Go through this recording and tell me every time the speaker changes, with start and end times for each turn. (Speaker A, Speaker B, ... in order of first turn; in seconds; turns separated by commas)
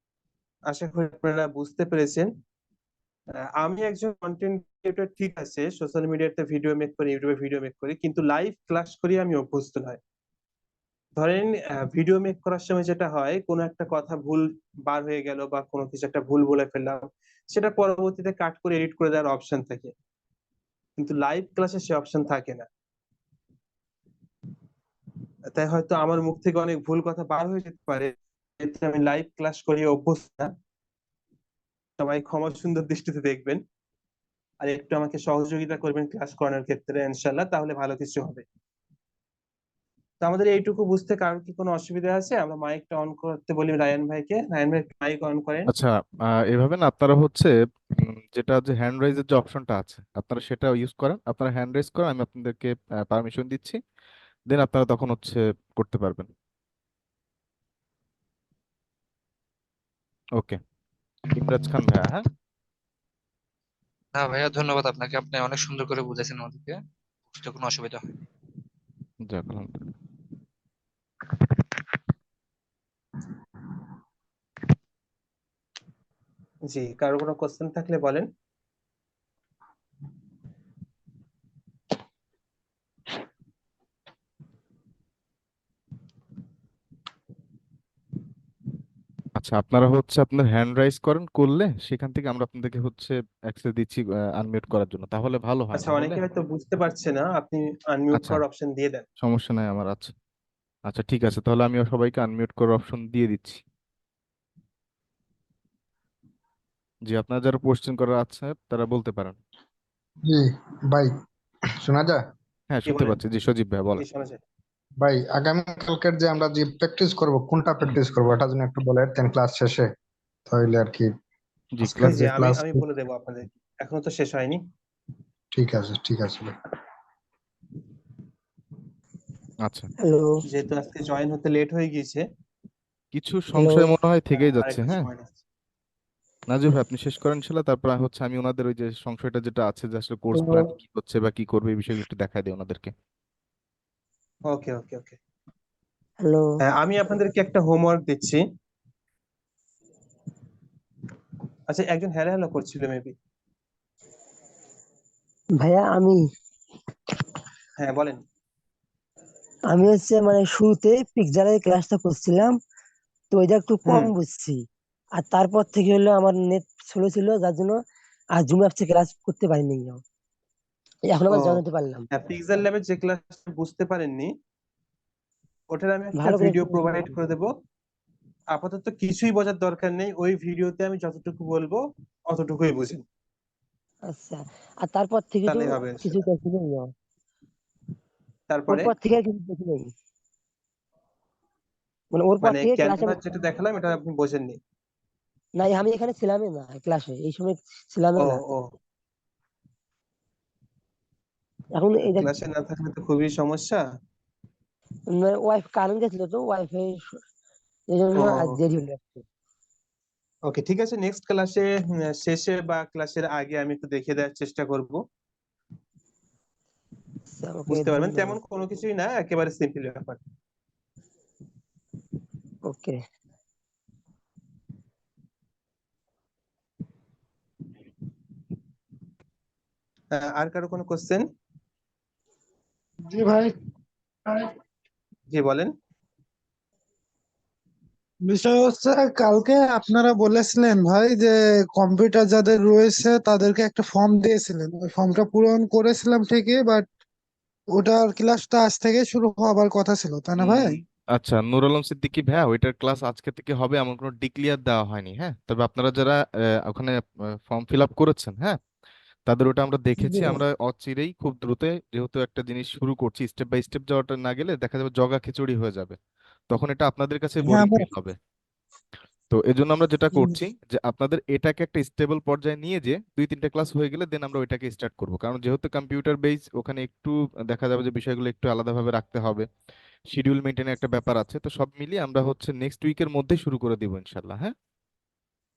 Speaker A: 0.7-2.3, Speaker A: 3.6-10.0, Speaker A: 11.2-19.9, Speaker A: 21.0-22.7, Speaker A: 25.5-30.5, Speaker A: 32.0-33.6, Speaker A: 34.6-38.4, Speaker A: 40.2-45.7, Speaker B: 45.7-46.0, Speaker B: 46.5-53.8, Speaker B: 54.5-56.3, Speaker B: 61.3-62.2, Speaker C: 64.1-66.8, Speaker C: 67.3-68.1, Speaker B: 69.2-69.8, Speaker A: 76.6-78.3, Speaker B: 89.3-96.2, Speaker A: 95.8-99.0, Speaker B: 98.1-98.4, Speaker B: 99.2-100.1, Speaker B: 100.9-103.6, Speaker B: 107.1-109.3, Speaker D: 110.2-111.1, Speaker D: 111.8-112.2, Speaker B: 112.7-114.0, Speaker A: 112.8-113.2, Speaker A: 114.0-114.4, Speaker D: 115.0-119.9, Speaker D: 120.5-121.1, Speaker B: 121.8-122.2, Speaker A: 121.8-124.6, Speaker D: 121.9-122.8, Speaker D: 125.5-126.5, Speaker B: 129.6-129.9, Speaker E: 130.0-130.4, Speaker A: 130.4-132.2, Speaker B: 133.1-135.1, Speaker E: 133.5-133.9, Speaker A: 134.4-135.3, Speaker B: 136.5-142.9, Speaker E: 140.3-140.7, Speaker A: 144.5-145.2, Speaker E: 146.2-146.5, Speaker A: 146.6-148.4, Speaker A: 151.7-153.1, Speaker E: 155.6-156.2, Speaker A: 157.8-158.2, Speaker E: 159.7-162.6, Speaker E: 163.3-164.6, Speaker A: 163.9-164.1, Speaker E: 165.2-167.8, Speaker E: 168.4-170.0, Speaker E: 171.1-172.1, Speaker A: 171.3-171.6, Speaker A: 172.1-174.3, Speaker A: 175.7-177.5, Speaker E: 176.2-177.1, Speaker A: 178.5-183.0, Speaker E: 184.1-186.9, Speaker A: 185.5-186.2, Speaker A: 188.5-188.9, Speaker E: 188.7-189.9, Speaker E: 192.1-193.2, Speaker A: 192.4-194.6, Speaker E: 195.6-198.4, Speaker A: 198.2-198.7, Speaker E: 201.8-202.3, Speaker A: 202.2-203.8, Speaker E: 205.1-207.2, Speaker E: 207.9-209.2, Speaker A: 208.2-208.5, Speaker A: 210.5-215.0, Speaker E: 217.4-218.4, Speaker A: 217.7-220.2, Speaker E: 222.6-223.0, Speaker A: 230.1-231.3, Speaker F: 233.1-233.5, Speaker A: 235.3-235.7, Speaker F: 238.2-246.9, Speaker F: 247.7-250.8, Speaker B: 250.4-258.6, Speaker B: 259.3-266.0, Speaker F: 260.0-260.4, Speaker B: 266.5-268.1, Speaker F: 267.4-267.9, Speaker B: 269.3-279.5, Speaker B: 280.1-284.5